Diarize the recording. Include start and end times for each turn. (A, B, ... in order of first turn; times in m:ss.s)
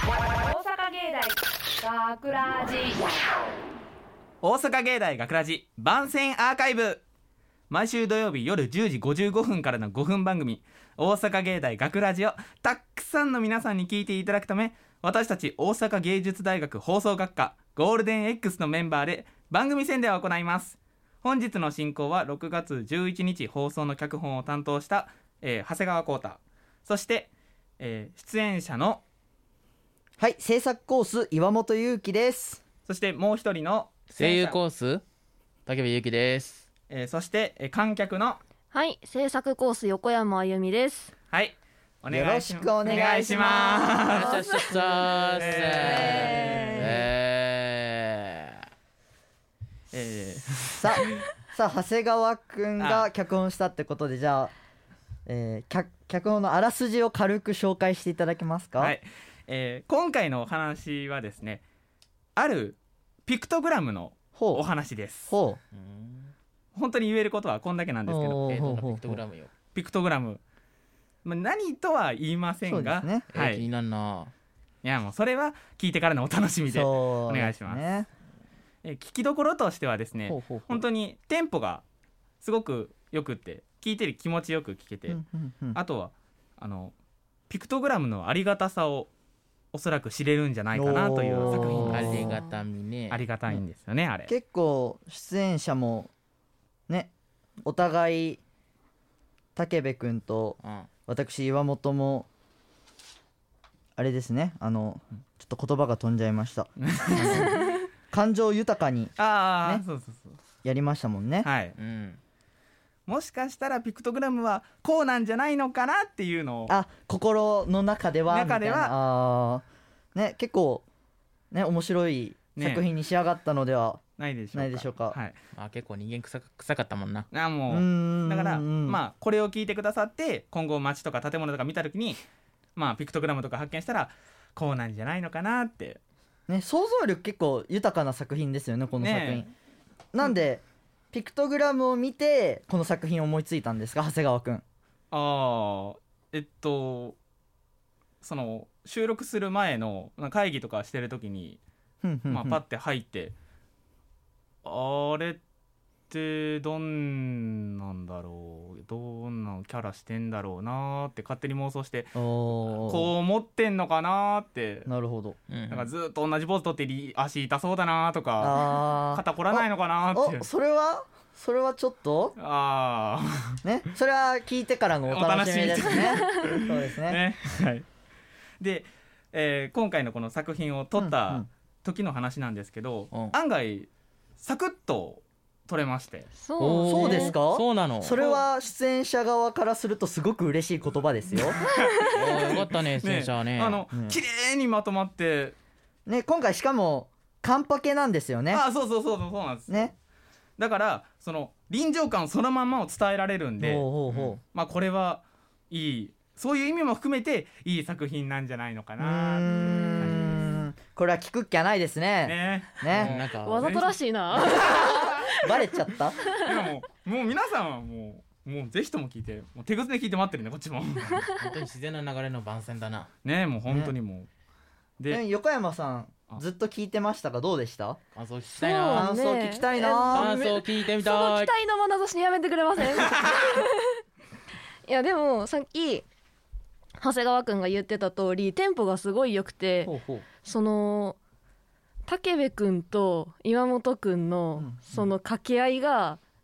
0:00.4-0:03.1 A
0:04.4-0:07.0 B
0:07.7-0:29.0 B
0:30.2-0:32.6 C
0:32.8-0:34.6 B
0:34.1-0:35.0 D
0:35.6-0:36.6 D
0:36.9-0:38.4 B
0:38.7-0:41.1 E
0:41.3-0:44.4 B
0:42.1-0:44.3 C
0:43.8-0:45.2 E
0:44.1-0:48.6 D
0:45.3-0:46.8 B
0:45.6-0:47.0 C
0:45.8-0:47.0 E
0:49.9-0:51.1 B
0:50.8-0:54.5 C
0:52.8-0:53.1 B
0:55.3-0:58.9 C
0:58.8-1:01.6 B
1:02.4-1:05.3 B
1:04.4-1:04.6 C
1:05.3-1:05.6 C
1:05.7-1:06.3 D
1:06.7-1:08.4 B
1:08.1-1:09.2 C
1:08.4-1:09.5 D
1:09.7-1:10.4 B
1:11.2-1:13.7 B
1:12.6-1:13.3 C
1:13.3-1:14.3 D
1:14.8-1:17.8 B
1:16.7-1:18.1 C
1:18.8-1:21.8 B
1:20.2-1:20.8 C
1:22.4-1:25.2 B
1:25.1-1:25.8 C
1:25.7-1:26.9 B
1:27.5-1:29.1 B
1:29.7-1:32.4 B
1:30.7-1:32.4 C
1:31.4-1:32.5 E
1:31.8-1:33.2 D
1:33.1-1:34.3 B
1:34.3-1:36.1 C
1:37.6-1:38.4 C
1:39.6-1:42.3 C
1:40.6-1:40.9 D
1:44.0-1:49.8 C
1:46.8-1:47.6 B
1:49.2-1:50.4 B
1:50.6-1:51.5 C
1:51.4-1:51.7 B
1:51.8-1:52.2 D
1:53.1-1:56.8 B
1:56.7-1:59.6 C
1:58.3-1:58.9 B
2:00.1-2:00.8 C
2:01.5-2:04.0 C
2:02.6-2:02.9 B
2:04.2-2:05.3 B
2:04.5-2:05.2 C
2:05.5-2:07.2 D
2:07.3-2:12.2 B
2:07.7-2:09.0 C
2:12.8-2:16.0 B
2:16.5-2:19.5 C
2:19.0-2:19.5 B
2:20.1-2:24.6 C
2:25.1-2:27.2 B
2:28.2-2:31.6 B
2:32.0-2:32.6 C
2:32.3-2:33.3 B
2:34.6-2:35.4 B
2:36.1-2:44.9 B
2:42.1-2:43.1 C
2:44.9-2:45.4 C
2:45.5-2:45.9 D
2:45.7-2:50.4 B
2:48.4-2:52.3 C
2:52.4-2:53.6 B
2:53.6-2:57.2 C
2:55.1-2:57.8 B
2:58.6-3:06.3 B
3:01.0-3:01.5 C
3:03.1-3:03.4 D
3:06.3-3:07.3 E
3:06.6-3:08.2 D
3:06.8-3:11.6 C
3:08.1-3:08.4 B
3:11.6-3:12.4 E
3:11.6-3:15.6 B
3:12.1-3:13.8 D
3:13.9-3:14.2 C
3:16.1-3:18.6 C
3:18.5-3:19.9 B
3:20.6-3:23.9 B
3:23.6-3:24.4 C
3:24.4-3:30.4 B
3:29.0-3:33.2 C
3:29.5-3:30.6 E
3:32.2-3:35.2 B
3:32.9-3:33.7 D
3:33.4-3:35.6 E
3:35.4-3:36.2 C
3:36.4-3:41.2 B
3:41.1-3:41.5 E
3:41.3-3:43.1 D
3:43.2-3:44.3 B
3:43.7-3:43.9 C
3:45.1-3:48.0 C
3:48.1-3:49.1 D
3:48.5-3:53.9 E
3:48.9-3:50.6 C
3:50.1-3:51.5 D
3:54.8-3:56.0 E
3:57.0-4:01.2 E
3:59.8-4:00.2 C
4:02.1-4:06.2 E
4:04.6-4:05.1 C